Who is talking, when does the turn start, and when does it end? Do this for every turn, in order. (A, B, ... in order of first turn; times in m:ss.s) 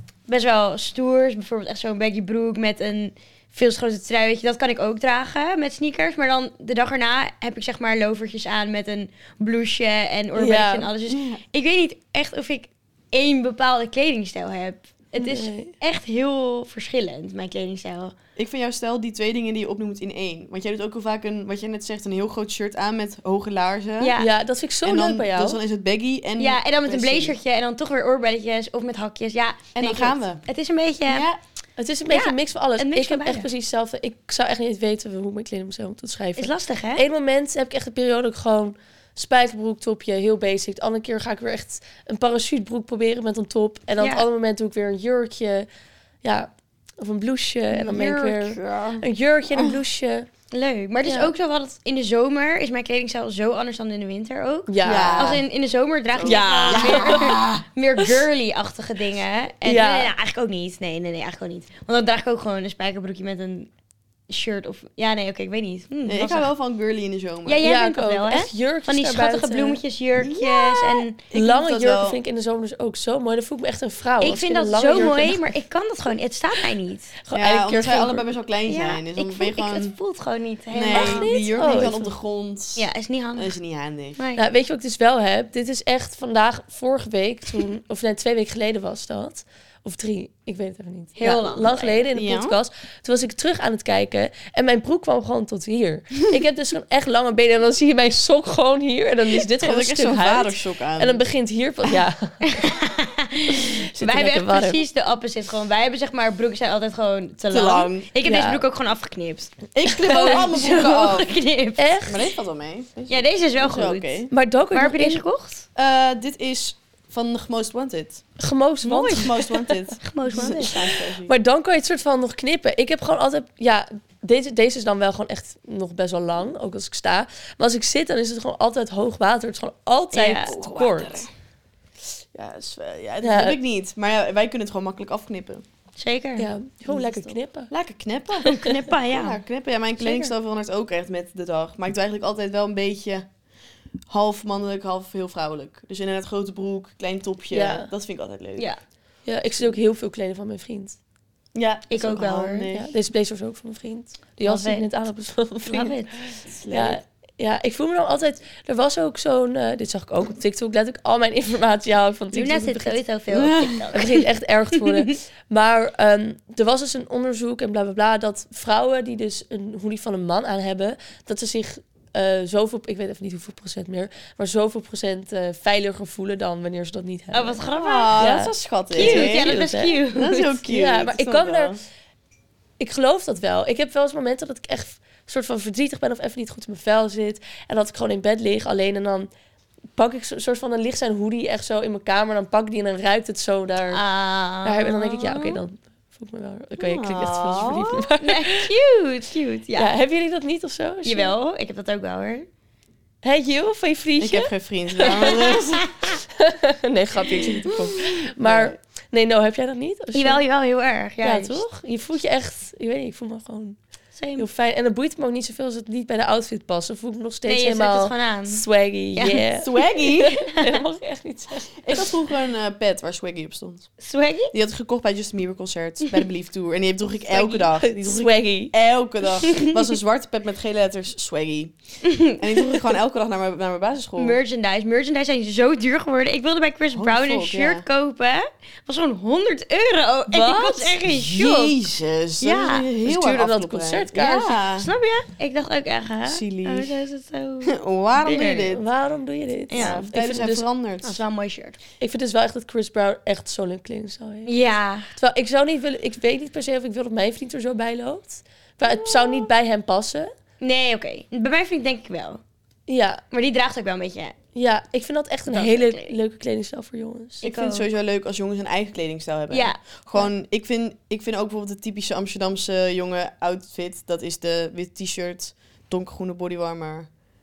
0:00.3-0:18.1 A
0:10.4-0:10.9 B
0:11.1-0:11.4 C
0:15.2-0:15.7 B
0:18.4-0:24.1 C
0:24.0-0:24.3 A
0:24.2-0:25.6 B
0:24.8-0:27.4 C
0:26.4-0:31.2 A
0:29.7-0:30.4 C
0:31.1-0:31.4 C
0:31.8-0:45.7 B
0:32.1-0:33.5 A
0:36.4-0:37.0 A
0:44.0-0:44.2 A
0:46.2-0:50.3 B
0:47.7-0:49.8 C
0:50.5-1:03.7 A
0:51.0-0:51.3 B
0:54.7-0:55.4 B
0:54.8-0:55.4 C
0:56.1-0:57.6 C
0:56.2-0:57.4 B
0:59.6-1:00.1 B
1:04.3-1:06.5 A
1:06.0-1:07.6 C
1:07.4-1:11.2 A
1:07.6-1:09.8 B
1:10.2-1:12.2 C
1:11.3-1:15.5 B
1:14.2-1:17.1 A
1:17.2-1:18.3 B
1:17.3-1:20.0 C
1:18.7-1:21.3 A
1:20.7-1:24.2 C
1:20.9-1:22.1 B
1:22.8-1:23.6 A
1:24.4-1:42.4 B
1:31.2-1:32.1 A
1:32.1-1:32.6 C
1:39.3-1:41.2 C
1:42.4-1:52.0 A
1:43.5-1:44.8 B
1:47.5-1:48.1 C
1:48.2-1:48.6 B
1:49.7-1:51.4 C
1:50.2-1:50.8 B
1:51.8-1:52.2 B
1:52.0-1:54.3 C
1:53.1-1:55.7 A
1:54.3-1:55.2 B
1:55.8-1:58.2 C
1:58.4-2:11.3 B
1:58.8-1:59.3 A
1:59.1-2:01.3 C
2:00.0-2:01.0 A
2:10.1-2:10.5 A
2:10.4-2:11.3 C
2:12.3-2:15.6 C
2:13.2-2:13.6 B
2:16.0-2:16.5 A
2:16.4-2:17.7 B
2:16.9-2:23.3 C
2:18.4-2:19.4 A
2:20.0-2:20.3 A
2:24.1-2:28.7 C
2:27.5-2:27.9 B
2:29.2-2:31.0 B
2:31.5-2:32.9 C
2:31.9-2:32.7 A
2:32.7-2:43.0 B
2:34.4-2:34.8 A
2:35.6-2:36.2 A
2:36.4-2:37.0 C
2:42.3-2:45.2 A
2:43.3-2:43.9 C
2:43.9-2:57.6 B
2:57.3-2:58.2 A
2:57.7-2:59.6 C
2:58.2-3:00.0 B
2:58.9-3:00.6 A
3:00.1-3:01.8 C
3:00.7-3:01.8 B
3:02.8-3:09.3 B
3:10.0-3:14.0 B
3:13.9-3:15.6 A
3:14.6-3:18.7 B
3:16.8-3:18.1 C
3:18.2-3:19.9 A
3:19.8-3:21.3 B
3:21.0-3:22.5 A
3:23.2-3:25.4 B
3:24.2-3:25.9 C
3:25.0-3:26.2 A
3:26.3-3:30.4 B
3:27.4-3:28.8 C
3:30.1-3:31.6 A
3:31.2-3:33.8 B
3:34.1-3:34.4 A
3:34.4-3:42.2 B
3:37.4-3:39.5 A
3:39.6-3:40.4 C
3:40.2-3:40.8 A
3:41.8-3:43.9 C
3:44.0-3:44.5 A
3:44.5-3:51.8 C
3:47.3-3:48.7 B
3:49.4-3:49.7 A
3:52.0-3:52.4 A
3:52.3-3:54.4 C
3:54.2-4:01.8 A
3:56.9-3:57.8 C
4:00.3-4:01.0 B
4:01.1-4:04.9 C
4:02.4-4:02.9 A
4:03.0-4:04.6 B
4:04.8-4:08.7 A
4:06.3-4:07.0 C
4:07.6-4:08.8 C
4:08.4-4:10.6 B
4:09.7-4:10.1 A
4:09.7-4:11.2 C
4:11.0-4:11.8 A
4:12.0-4:14.5 B
4:14.4-4:15.1 A
4:15.1-4:20.3 B
4:18.8-4:19.5 C
4:20.6-4:22.4 A
4:22.9-4:23.2 B
4:23.3-4:24.4 A
4:24.5-4:27.4 B
4:25.5-4:26.2 A
4:27.4-4:27.9 A
4:27.4-4:37.1 C
4:29.5-4:29.8 A